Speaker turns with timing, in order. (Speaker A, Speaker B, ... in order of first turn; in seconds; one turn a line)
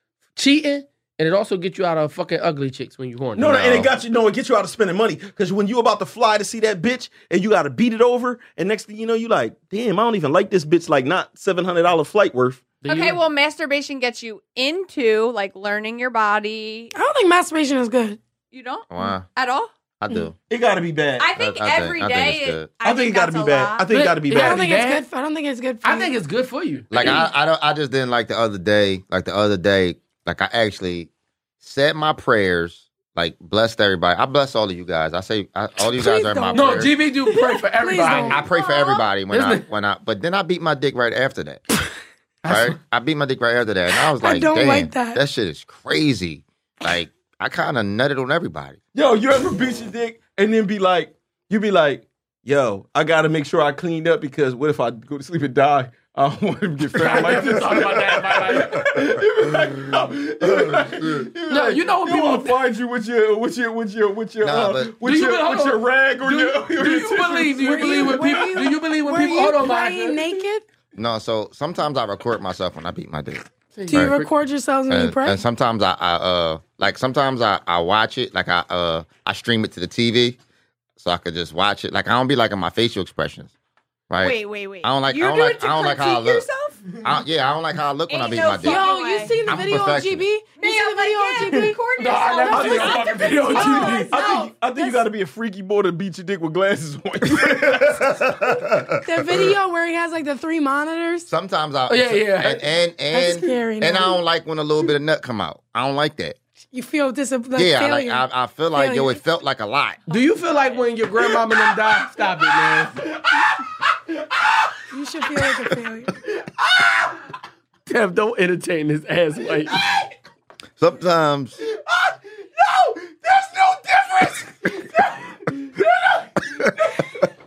Speaker A: 0.4-3.9
Speaker B: 3.4-12.7
Speaker A: 12.8-13.2
Speaker C: 12.9-16.9
Speaker D: 16.9-18.2
Speaker C: 18.5-19.7
Speaker E: 18.9-19.3
Speaker E: 20.0-20.3
Speaker B: 20.5-21.3
Speaker C: 21.2-23.9
Speaker E: 21.4-22.7
Speaker B: 22.8-24.7
Speaker A: 23.9-25.0
Speaker D: 24.3-26.1
Speaker A: 25.8-27.1
Speaker E: 26.9-31.1
Speaker E: 31.6-36.9
Speaker D: 36.0-38.4
Speaker A: 36.5-38.5
Speaker E: 38.3-41.6
Speaker C: 38.5-39.0
Speaker A: 39.3-39.6
Speaker A: 42.4-42.8
Speaker E: 42.5-48.8
Speaker D: 44.2-45.2
Speaker B: 48.9-68.6
Speaker A: 56.9-59.0
Speaker E: 60.4-61.3
Speaker A: 61.5-62.6
Speaker E: 64.4-64.9
Speaker A: 65.0-70.4
Speaker D: 67.6-70.6
Speaker E: 71.0-74.2
Speaker A: 73.7-74.3
Speaker D: 73.9-75.4
Speaker E: 74.9-80.4
Speaker E: 81.0-83.5
Speaker E: 84.1-86.5
Speaker C: 84.2-87.0
Speaker E: 87.0-88.9
Speaker C: 88.1-89.4
Speaker D: 88.6-91.8
Speaker E: 89.5-90.2
Speaker C: 90.6-94.8
Speaker A: 92.0-94.2
Speaker D: 92.4-95.0
Speaker B: 92.5-98.6
Speaker E: 97.4-99.5
Speaker D: 99.0-101.3
Speaker E: 101.3-106.4
Speaker A: 101.9-102.6
Speaker D: 103.1-104.2
Speaker D: 106.7-109.2
Speaker E: 107.5-110.0
Speaker A: 110.1-114.5
Speaker C: 110.1-110.8
Speaker B: 111.2-112.0
Speaker D: 114.9-116.2
Speaker A: 116.3-117.2
Speaker A: 117.9-119.8
Speaker E: 120.8-121.5
Speaker B: 122.7-124.3
Speaker A: 124.0-127.1